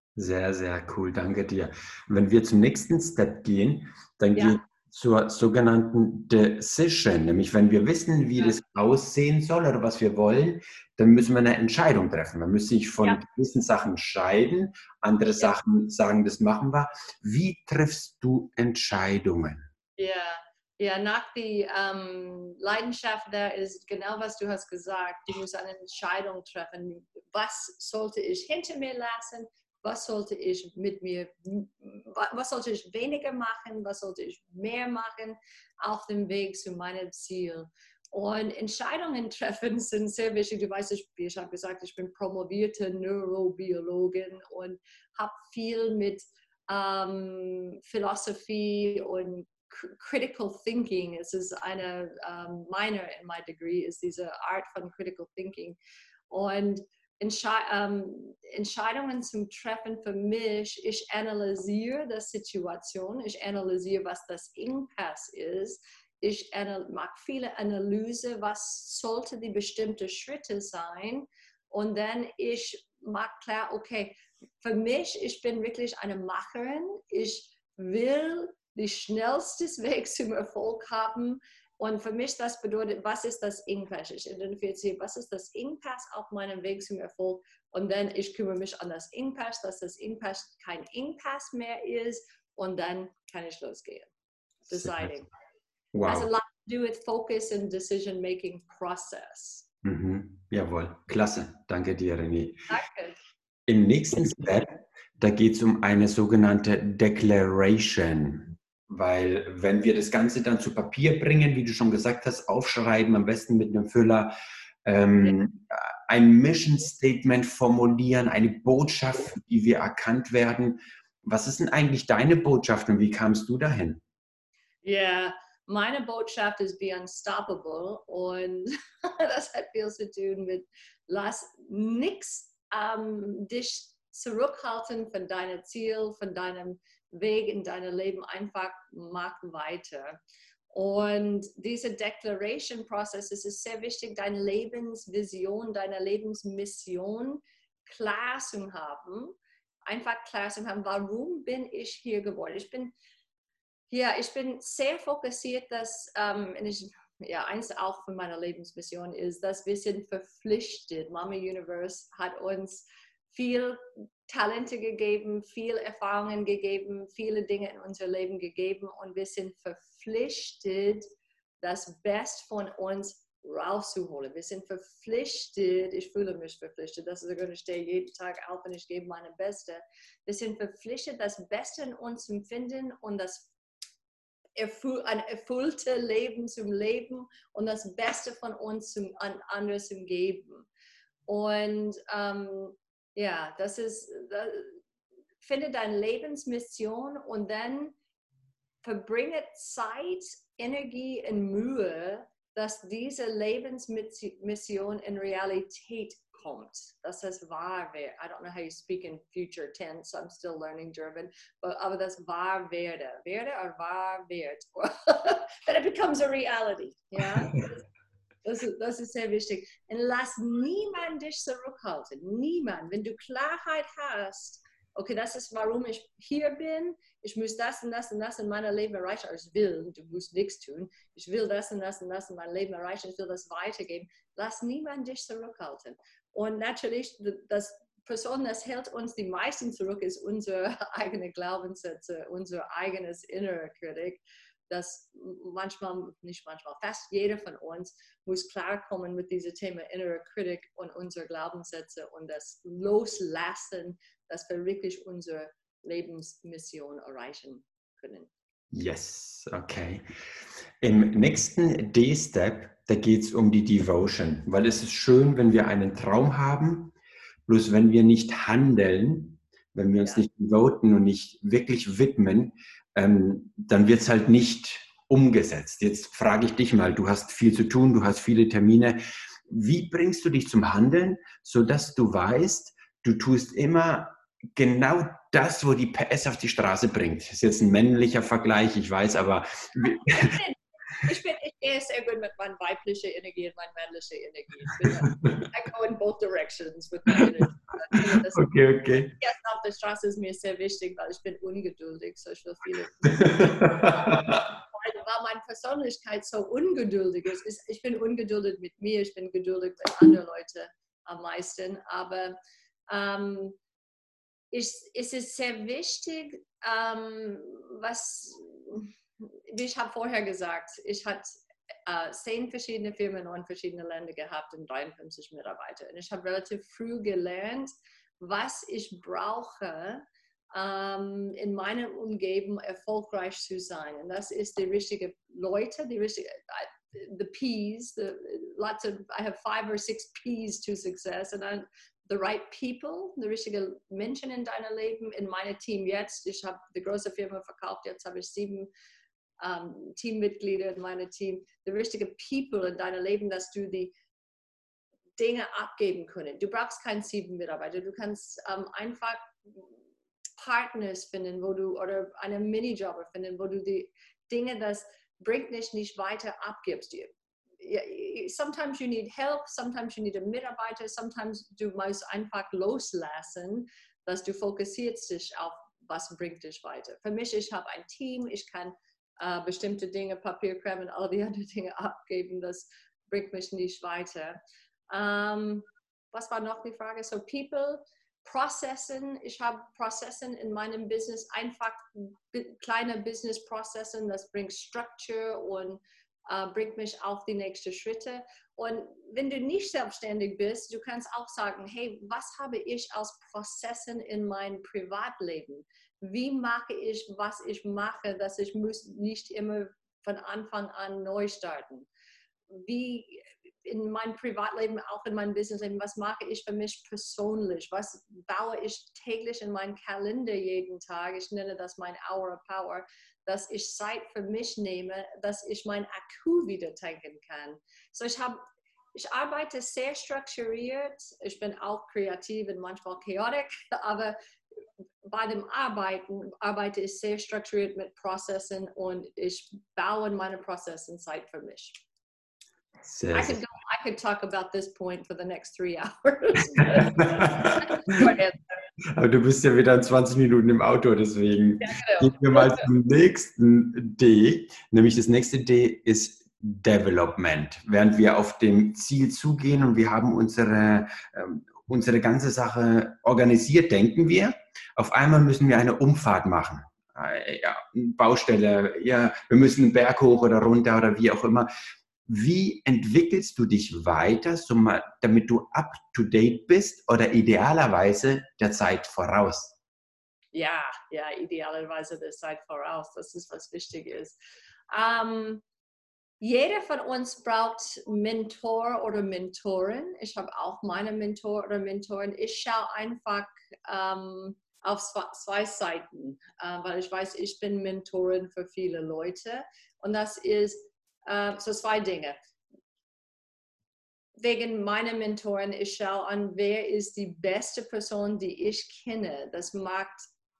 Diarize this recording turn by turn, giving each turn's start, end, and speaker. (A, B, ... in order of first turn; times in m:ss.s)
0:00.2-0:19.7 A
0:20.0-0:55.8 B
0:56.3-1:34.1 B
1:34.7-1:35.2 A
1:34.7-1:35.3 B
1:35.9-1:36.3 A
1:36.1-1:39.6 B
1:39.8-1:42.6 A
1:42.7-1:43.2 B
1:43.7-1:54.3 A
1:54.8-2:04.0 A
2:04.8-2:20.2 B
2:20.7-2:29.4 B
2:29.9-2:32.9 B
2:33.9-2:51.0 B
2:51.6-3:03.5 B
3:04.6-3:10.6 B
3:11.3-3:14.8 B
3:15.4-3:17.9 B
3:18.8-3:37.8 B
3:38.4-4:18.3 B
4:18.7-4:20.0 A
4:20.8-4:26.9 A
4:27.5-4:50.4 A
4:49.8-4:58.5 B
4:55.1-4:55.4 A
4:58.0-4:59.2 A
4:59.2-5:12.4 B
5:03.1-5:04.4 A
5:12.9-5:13.6 B
5:14.5-5:21.3 B
5:21.9-5:48.7 B
5:49.4-5:53.9 B
5:55.2-5:59.7 B
6:00.4-6:24.4 B
6:24.9-6:51.9 B
6:52.5-7:08.4 B
7:08.9-7:14.2 B
7:15.0-7:21.8 B
7:22.8-7:23.4 A
7:23.1-7:28.6 B
7:26.5-7:28.1 A
7:28.9-7:51.5 A
7:31.6-7:32.6 B
7:52.1-7:59.6 A
8:00.3-8:04.1 B
8:04.7-8:05.4 B
8:06.2-8:22.2 B
8:24.2-8:30.0 B